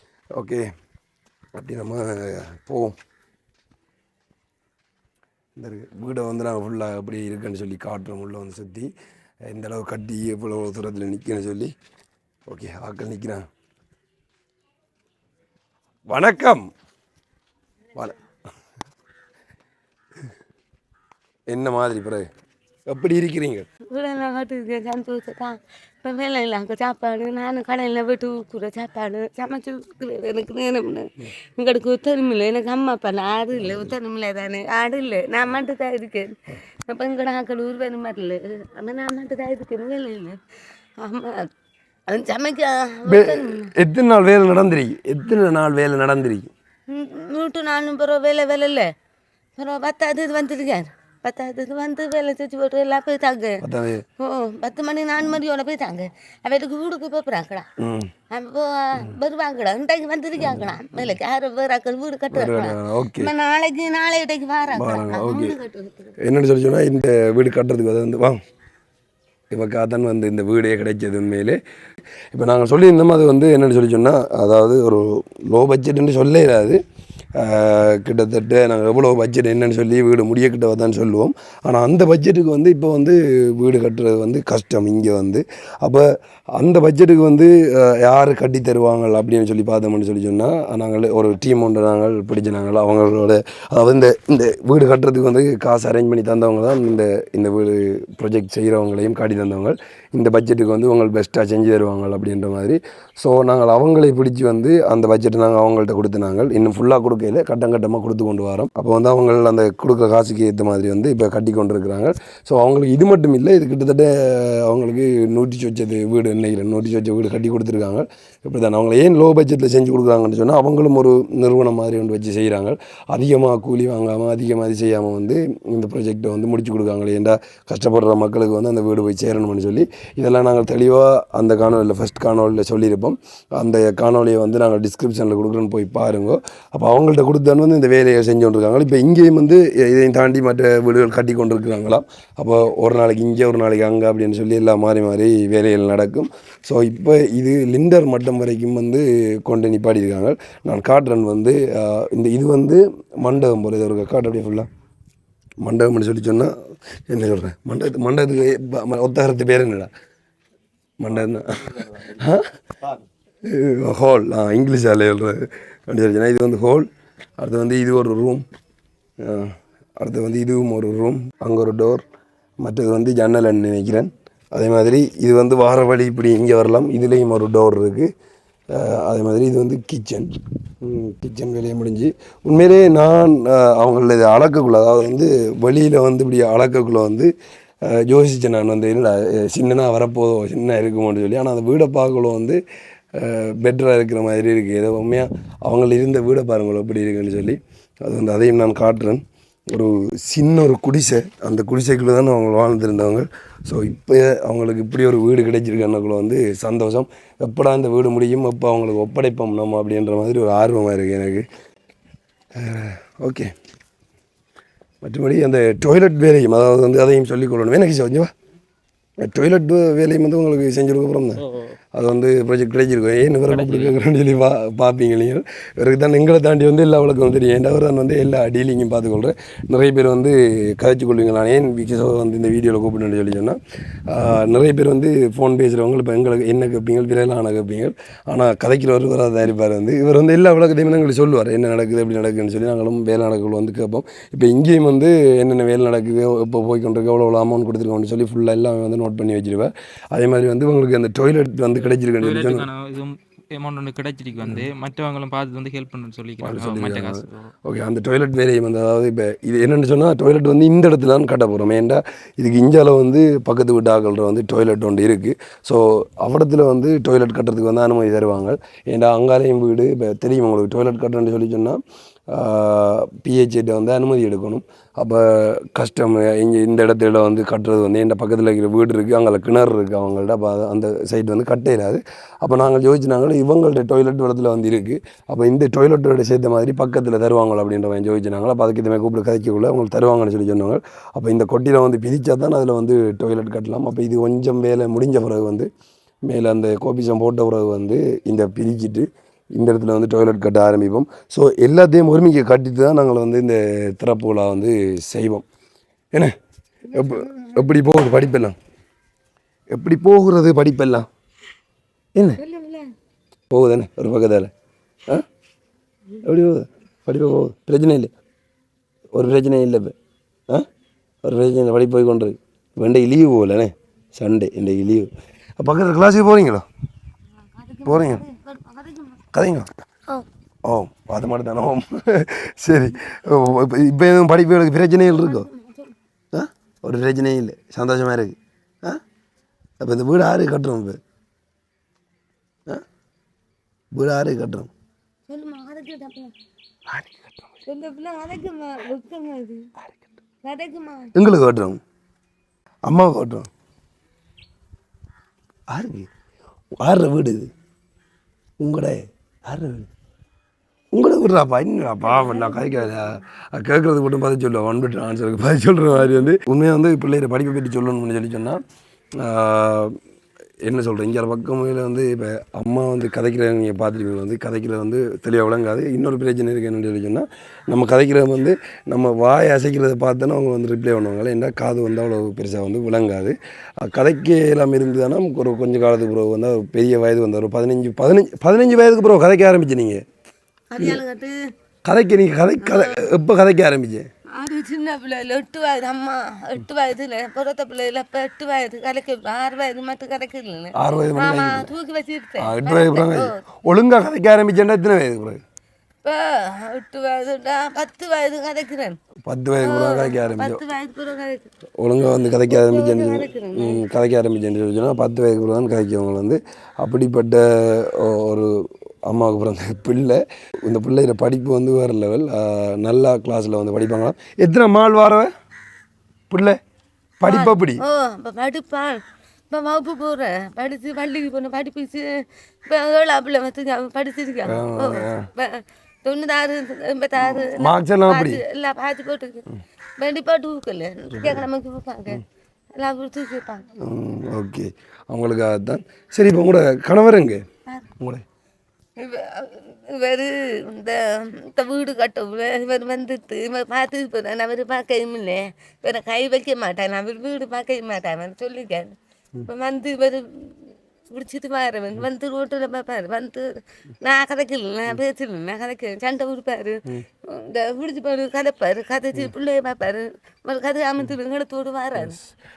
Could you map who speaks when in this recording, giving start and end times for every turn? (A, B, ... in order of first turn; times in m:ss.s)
0:00.4-0:00.7 A
0:01.6-0:03.0 A
0:05.6-0:08.9 A
0:09.5-0:11.7 A
0:12.5-0:13.5 A
0:16.1-0:16.6 A
0:21.5-0:22.3 A
0:22.9-0:23.7 A
0:23.9-0:40.4 B
0:41.0-0:41.5 B
0:42.1-0:43.7 B
0:43.1-0:46.5 A
0:46.9-0:48.9 B
0:49.6-0:53.6 B
0:53.6-0:54.0 A
0:54.2-0:57.7 B
0:57.8-0:58.1 A
0:58.3-1:06.2 B
1:02.3-1:03.3 A
1:04.7-1:05.6 A
1:06.2-1:08.4 A
1:09.5-1:11.6 A
1:12.3-1:16.8 A
1:17.4-2:34.7 A
2:35.6-2:36.5 A
2:37.1-2:39.9 A
2:41.0-2:42.5 A
2:43.4-2:46.9 A
2:47.4-2:48.4 A
2:49.2-2:52.0 A
2:52.6-2:58.1 A
2:58.7-3:07.3 A
3:07.8-3:12.6 A
3:13.2-3:31.4 A
3:32.6-3:33.5 A
3:35.0-3:38.3 A
3:39.2-3:41.4 A
3:41.4-3:41.8 C
3:42.0-4:12.7 A
3:43.5-3:44.0 C
4:12.2-4:17.5 C
4:16.4-4:55.7 A
4:56.3-5:05.5 A
5:06.9-5:07.7 B
5:06.9-5:08.6 A
5:09.7-5:11.1 A
5:12.2-5:12.4 A
5:12.4-5:12.9 B
5:13.5-5:14.5 A
5:16.2-5:18.1 A
5:19.1-5:20.0 A
5:21.2-5:26.7 A
5:27.4-5:29.2 B
5:27.8-5:28.2 A
5:29.3-5:29.7 A
5:30.6-5:35.5 A
5:35.0-5:36.0 B
5:36.3-5:39.0 A
5:39.8-5:41.0 A
5:43.9-5:44.7 A
5:45.3-5:46.3 B
5:46.9-5:47.6 A
5:47.7-5:49.7 B
5:49.8-5:50.0 A
5:50.4-5:51.1 B
5:51.2-5:51.8 A
5:52.9-5:53.5 A
5:55.7-5:56.1 A
5:56.8-5:57.5 A
5:58.6-5:59.9 A
6:00.9-6:08.6 A
6:02.0-6:03.0 B
6:09.2-6:10.0 A
6:10.6-6:30.0 A
6:30.7-6:31.4 B
6:31.9-6:34.1 A
6:32.6-6:33.1 B
6:34.3-6:43.4 B
6:40.8-6:41.7 A
6:42.4-6:45.4 A
6:46.0-6:49.0 B
6:49.3-6:50.6 A
6:49.6-6:51.5 B
6:51.8-7:05.3 A
6:52.5-6:53.8 B
7:06.3-7:06.6 A
7:07.2-7:07.8 A
7:07.2-7:19.5 B
7:14.4-7:15.3 A
7:17.2-7:18.4 A
7:20.0-7:23.7 B
7:21.1-7:21.4 A
7:23.8-7:27.4 A
7:28.0-7:28.2 A
7:29.0-7:52.2 B